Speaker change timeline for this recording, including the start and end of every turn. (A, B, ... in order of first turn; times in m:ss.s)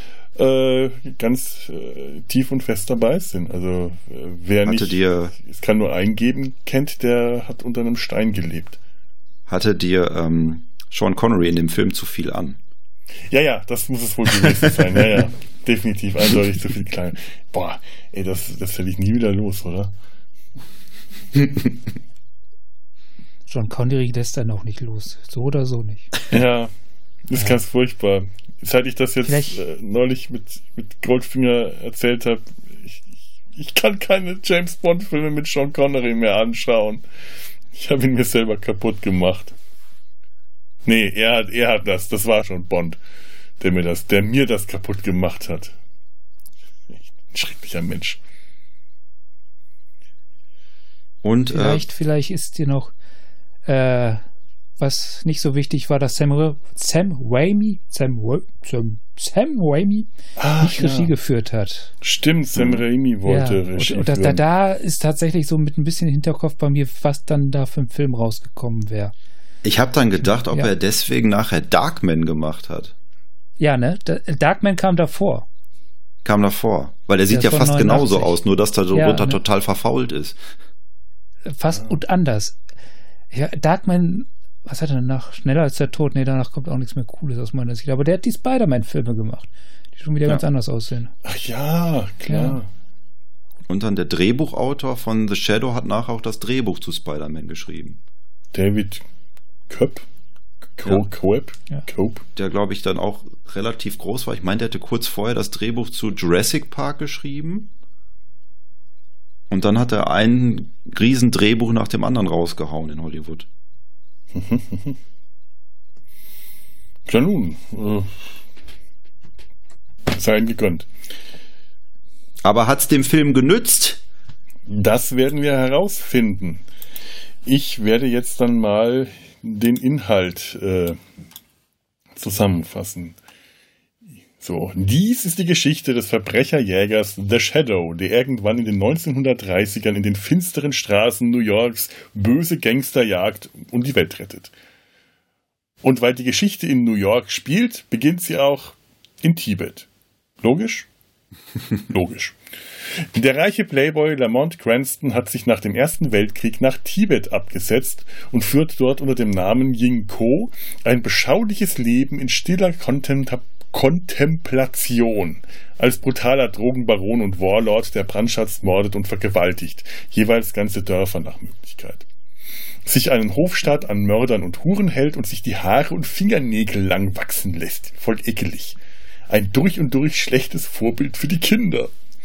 0:00.4-0:08.8 A
0:04.6-0:05.4 B
0:09.5-0:12.6 B
0:13.3-0:19.9 A
0:23.5-0:26.1 C
0:26.3-0:26.7 A
0:27.3-0:37.0 A
0:29.2-0:29.6 C
0:37.7-0:39.6 A
0:40.9-0:43.0 A
0:43.6-0:45.8 A
0:47.0-0:48.2 A
0:51.2-0:51.8 B
0:51.5-0:52.9 C
0:53.7-0:54.2 C
0:54.8-1:00.1 C
1:00.4-1:01.1 A
1:00.6-1:02.0 C
1:02.0-1:04.4 A
1:02.6-1:02.8 B
1:03.3-1:09.1 C
1:09.6-1:12.9 B
1:13.6-1:15.5 C
1:16.2-1:20.4 B
1:17.3-1:18.4 C
1:18.9-1:19.4 C
1:21.5-1:22.6 C
1:23.3-1:31.1 C
1:31.2-1:32.7 A
1:32.3-1:32.6 C
1:33.7-1:38.0 B
1:38.5-1:39.0 A
1:39.7-1:40.0 A
1:40.7-1:42.2 A
1:42.4-1:47.7 B
1:49.5-1:53.5 B
1:54.3-1:55.0 A
1:57.1-1:58.3 A
2:00.1-2:00.9 A
2:02.4-2:04.0 B
2:04.7-2:06.6 A
2:07.5-2:11.0 A
2:12.2-2:13.2 A
2:14.4-2:24.5 A
2:25.8-2:29.9 A
2:30.4-2:30.9 A
2:31.9-2:32.4 A
2:33.0-2:52.0 A
2:52.9-2:58.8 A
2:59.3-3:01.9 A